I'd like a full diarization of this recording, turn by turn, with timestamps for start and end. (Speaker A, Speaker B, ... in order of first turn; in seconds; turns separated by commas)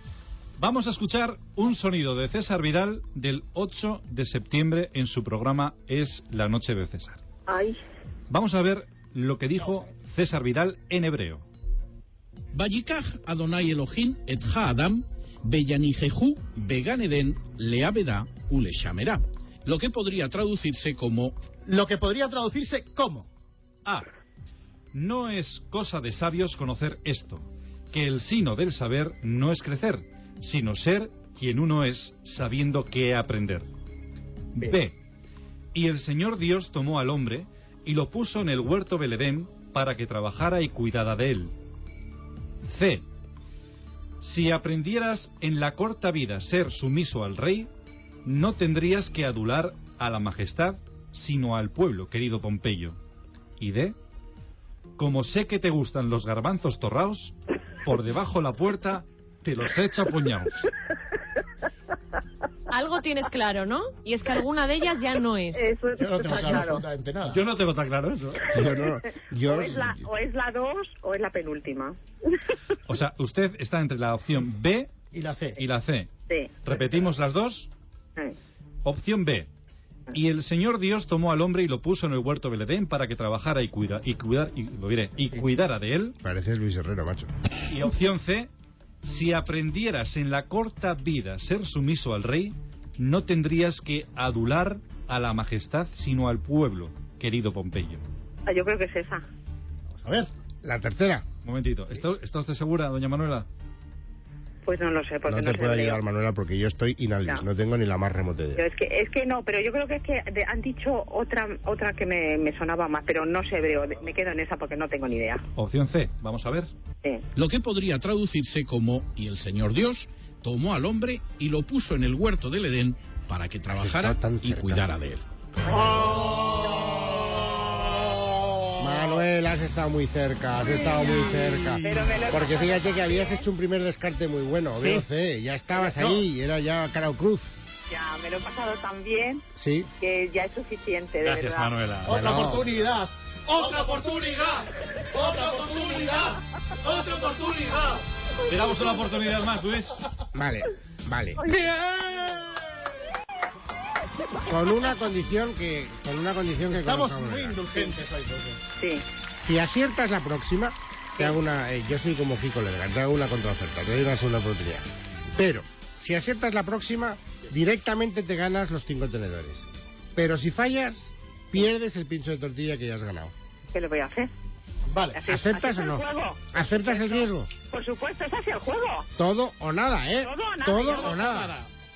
Speaker A: 0.6-7.2, Speaker B: 7.5-7.7, Speaker A: 8.3-11.4, Speaker C: 12.5-21.4, Speaker D: 21.6-23.3, Speaker A: 24.9-33.7, Speaker A: 34.5-35.0, Speaker A: 35.7-41.5, Speaker A: 42.6-43.0, Speaker A: 44.2-47.7, Speaker A: 48.2-53.0, Speaker A: 53.6-54.0, Speaker A: 55.0-60.7, Speaker E: 62.7-65.6, Speaker B: 65.5-66.8, Speaker D: 66.0-67.4, Speaker A: 67.3-68.7, Speaker F: 68.5-70.0, Speaker B: 69.4-71.9, Speaker A: 72.8-74.9, Speaker D: 75.1-75.6, Speaker A: 75.5-76.1, Speaker B: 76.3-76.5, Speaker A: 76.6-77.7, Speaker A: 78.8-79.5, Speaker A: 80.1-86.2, Speaker F: 86.2-87.3, Speaker A: 87.7-88.5, Speaker A: 89.0-98.0, Speaker B: 98.5-99.2, Speaker D: 100.0-100.3, Speaker F: 100.6-101.2, Speaker A: 101.4-103.5, Speaker B: 104.7-106.0, Speaker F: 105.2-108.6, Speaker B: 108.5-115.4, Speaker A: 115.5-116.7, Speaker C: 117.3-125.2, Speaker F: 123.7-124.9, Speaker B: 125.7-126.0, Speaker D: 126.9-127.3, Speaker F: 128.8-137.6, Speaker B: 131.8-133.4, Speaker D: 134.8-135.1, Speaker D: 135.8-136.2, Speaker B: 137.9-139.4, Speaker F: 139.5-139.9, Speaker B: 140.0-141.7, Speaker A: 141.2-142.2, Speaker D: 142.0-144.1, Speaker F: 142.1-142.7, Speaker A: 143.5-144.6, Speaker D: 145.1-146.4, Speaker A: 145.3-146.2, Speaker A: 146.9-150.0, Speaker D: 146.9-147.5, Speaker F: 150.3-151.4, Speaker B: 151.4-151.7, Speaker D: 151.7-152.6, Speaker F: 154.4-157.6, Speaker D: 156.7-158.6, Speaker B: 158.8-159.0, Speaker F: 159.3-169.6, Speaker F: 170.2-173.3, Speaker B: 173.7-174.3, Speaker D: 174.9-175.2, Speaker B: 175.1-179.0, Speaker F: 175.3-177.5, Speaker F: 179.2-181.5, Speaker B: 180.2-181.1, Speaker D: 180.8-181.7